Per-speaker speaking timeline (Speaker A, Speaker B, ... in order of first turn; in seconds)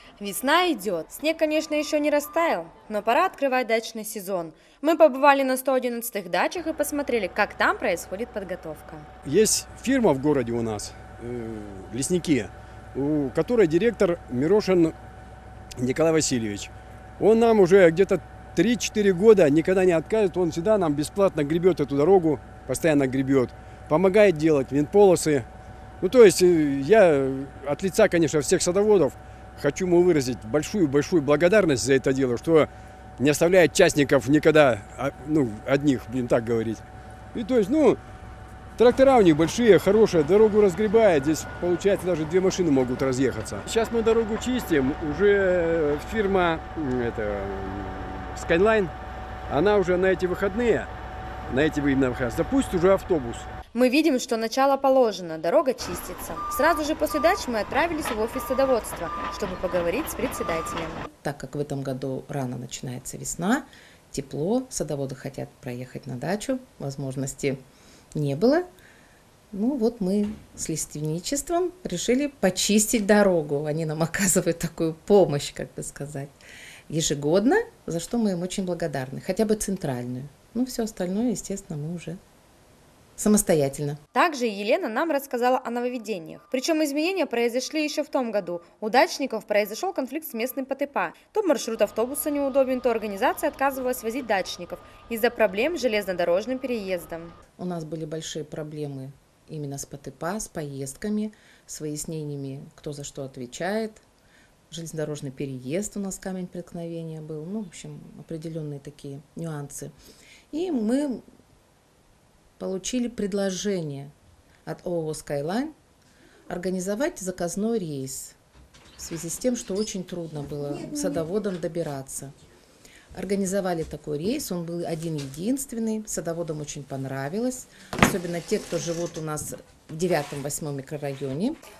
Speaker A: 0.2-9.1, 53.7-61.1, 84.1-97.3
Speaker B: 9.2-14.9, 15.8-25.5, 26.0-36.8, 37.3-38.0, 38.8-48.9, 49.5-50.9, 51.5-53.5
Speaker C: 61.2-67.6, 68.1-68.7, 69.5-76.4, 76.9-82.2, 83.2-84.0, 97.6-104.0, 104.7-109.9, 110.5-111.2, 112.6-114.1, 114.7-115.7, 116.5-118.4, 119.0-122.3, 123.1-131.6